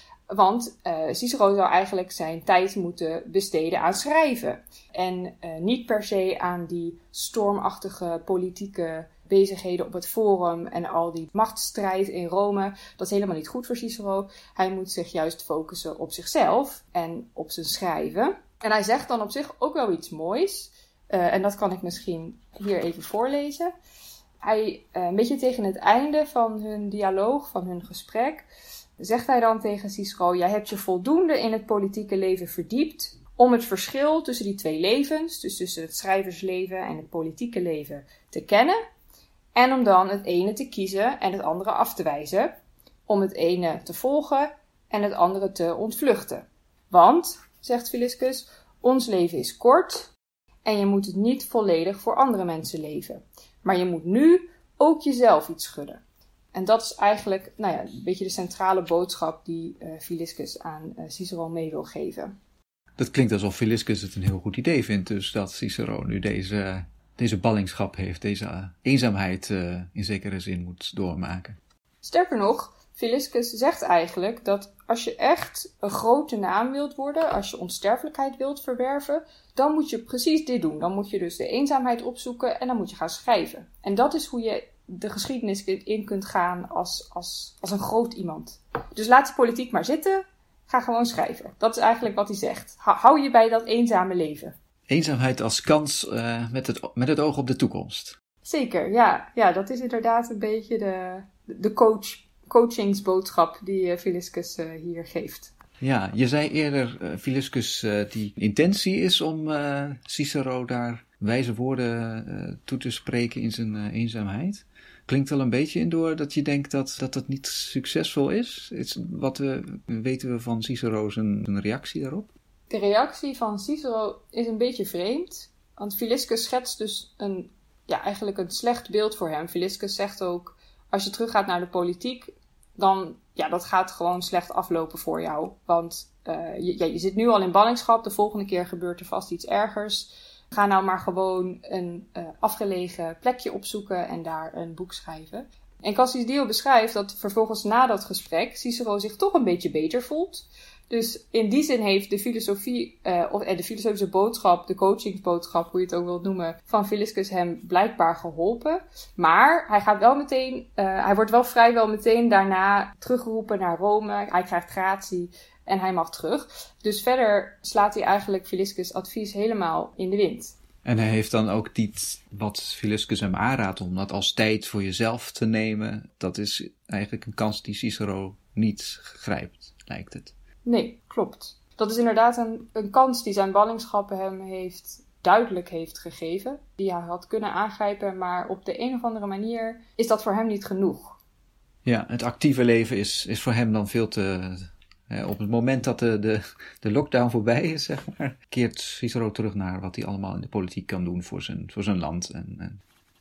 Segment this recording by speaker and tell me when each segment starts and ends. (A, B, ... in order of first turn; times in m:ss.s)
0:00.3-0:23.7 A
0:24.4-0:28.5 A
0:29.0-0:38.8 A
0:39.6-0:42.5 A
0:43.1-0:50.1 A
0:50.6-0:56.0 A
0:56.5-1:02.3 A
1:03.0-1:11.6 B
1:12.0-1:34.6 A
1:34.9-1:38.2 B
1:38.4-1:45.5 A
1:45.8-2:02.3 B
2:02.7-2:50.6 A
2:50.8-3:00.3 B
3:00.6-3:11.2 A
3:11.8-3:22.8 B